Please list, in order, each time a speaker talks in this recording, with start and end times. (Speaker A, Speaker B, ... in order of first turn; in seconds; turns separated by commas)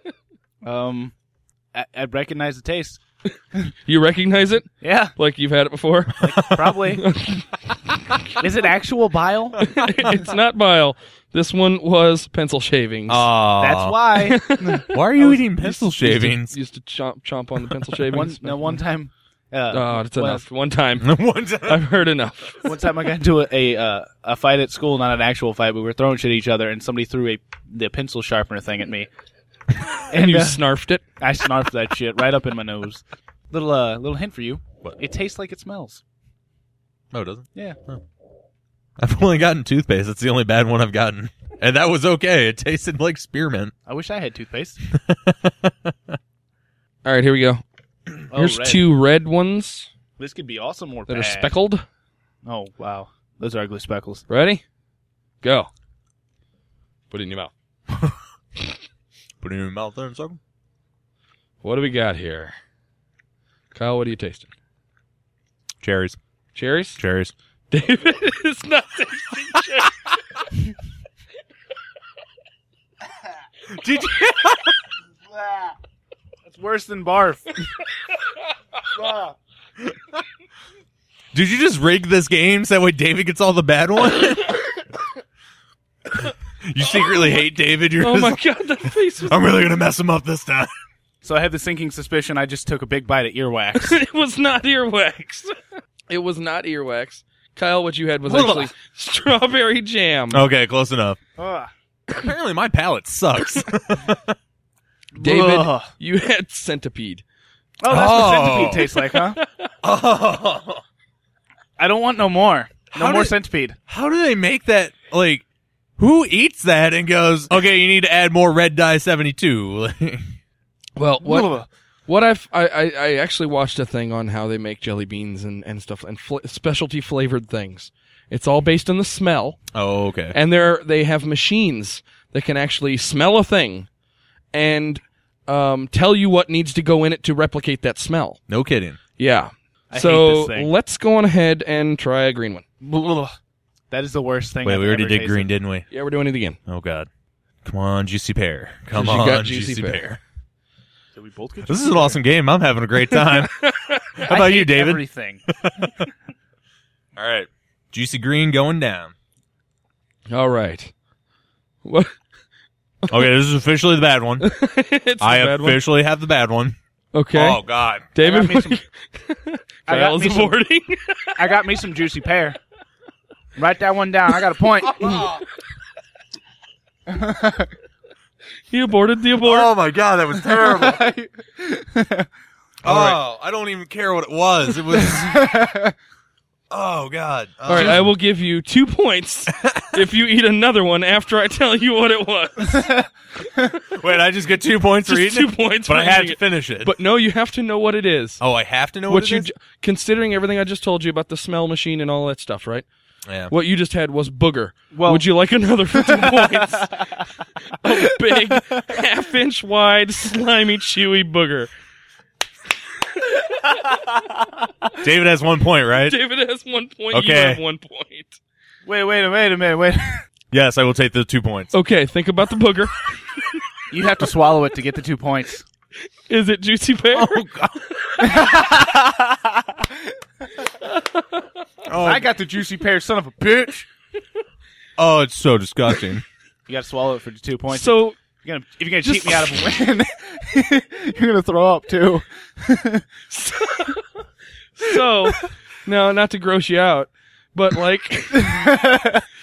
Speaker A: 0.6-1.1, Speaker A: 1.7-3.0, Speaker B: 3.8-6.3, Speaker A: 4.8-5.1, Speaker A: 6.2-7.1, Speaker C: 6.3-6.6, Speaker B: 7.0-7.5, Speaker A: 8.4-9.6, Speaker B: 9.6-13.3, Speaker C: 13.1-14.0, Speaker A: 13.6-15.5, Speaker B: 14.2-14.9, Speaker C: 14.9-16.6, Speaker B: 15.6-18.8, Speaker A: 18.1-20.4, Speaker B: 19.7-22.7, Speaker C: 21.0-21.8, Speaker A: 22.6-29.1, Speaker A: 30.1-30.6, Speaker B: 30.1-31.0, Speaker A: 31.2-36.0, Speaker C: 37.1-38.0, Speaker C: 39.0-43.7, Speaker A: 43.9-44.8, Speaker C: 44.9-46.2, Speaker B: 47.0-47.6, Speaker A: 48.3-48.9, Speaker B: 48.3-49.9, Speaker A: 50.2-51.5, Speaker B: 51.1-51.8, Speaker A: 52.4-54.2, Speaker B: 54.3-54.6, Speaker B: 55.4-55.7, Speaker B: 57.1-57.5, Speaker C: 59.4-60.4, Speaker B: 61.6-62.5, Speaker B: 63.7-64.5, Speaker C: 65.8-66.2, Speaker B: 66.5-67.0, Speaker C: 67.0-67.3, Speaker B: 67.7-69.9, Speaker C: 73.7-74.8, Speaker A: 76.5-77.6, Speaker A: 79.0-79.3, Speaker C: 81.3-84.6, Speaker C: 86.6-88.4, Speaker B: 88.0-89.5, Speaker C: 89.2-90.7, Speaker A: 91.2-94.0, Speaker B: 93.8-95.5, Speaker B: 96.1-100.4, Speaker C: 98.2-98.7, Speaker C: 100.3-101.2, Speaker A: 101.4-101.7, Speaker C: 102.1-104.4, Speaker A: 105.2-105.9, Speaker B: 105.2-107.2, Speaker A: 107.8-109.4, Speaker C: 107.9-108.9, Speaker B: 109.0-109.7, Speaker C: 109.8-110.8, Speaker A: 111.8-113.8, Speaker C: 112.9-113.3, Speaker C: 113.9-115.4, Speaker C: 116.0-120.3, Speaker B: 121.0-121.5, Speaker A: 121.2-121.7, Speaker B: 122.1-129.6, Speaker C: 129.7-130.3, Speaker B: 130.3-133.9, Speaker B: 134.5-138.4, Speaker C: 138.5-139.0, Speaker B: 139.2-142.6, Speaker A: 139.9-140.7, Speaker A: 142.8-143.3, Speaker A: 143.9-145.5, Speaker C: 144.6-145.8, Speaker B: 145.9-146.6, Speaker C: 146.7-147.1, Speaker C: 147.6-150.2, Speaker B: 148.9-150.1, Speaker A: 151.1-152.2, Speaker C: 151.7-156.1, Speaker B: 153.3-154.2, Speaker A: 154.2-155.4, Speaker C: 157.2-159.1, Speaker B: 160.3-160.9, Speaker B: 161.8-162.1, Speaker C: 163.1-164.5, Speaker B: 164.4-165.8, Speaker C: 165.2-166.8, Speaker B: 167.1-167.6, Speaker C: 167.3-168.1, Speaker B: 168.1-171.6, Speaker A: 168.2-168.8, Speaker A: 169.9-170.6, Speaker A: 171.3-172.6, Speaker A: 173.6-175.3, Speaker C: 175.0-175.4, Speaker A: 177.1-177.7, Speaker B: 178.7-179.7, Speaker C: 179.4-181.1, Speaker A: 180.4-182.3, Speaker C: 182.8-185.5, Speaker A: 182.9-183.2, Speaker A: 184.9-185.9, Speaker C: 186.7-188.1, Speaker B: 187.7-192.9, Speaker A: 187.7-188.0, Speaker C: 189.5-190.0, Speaker C: 193.9-196.9, Speaker B: 195.1-198.4, Speaker C: 198.4-199.5, Speaker B: 199.1-202.8, Speaker C: 203.2-203.5, Speaker B: 203.5-207.1, Speaker A: 204.9-205.3, Speaker A: 206.0-206.9, Speaker B: 207.8-211.7, Speaker A: 208.3-208.8, Speaker B: 213.2-214.0, Speaker C: 215.0-216.2, Speaker B: 216.0-218.4, Speaker C: 217.1-217.6, Speaker A: 218.8-220.2, Speaker C: 220.5-221.7, Speaker B: 221.7-223.1, Speaker A: 223.9-225.6, Speaker B: 226.3-227.5, Speaker C: 227.1-227.8, Speaker B: 228.0-228.4, Speaker A: 228.2-230.1, Speaker B: 230.8-231.4, Speaker C: 231.8-232.3, Speaker A: 232.0-233.9, Speaker C: 235.0-236.2, Speaker A: 236.7-243.0, Speaker B: 237.7-238.2, Speaker B: 239.0-239.6, Speaker B: 243.3-244.0, Speaker B: 244.8-248.8, Speaker A: 248.3-249.2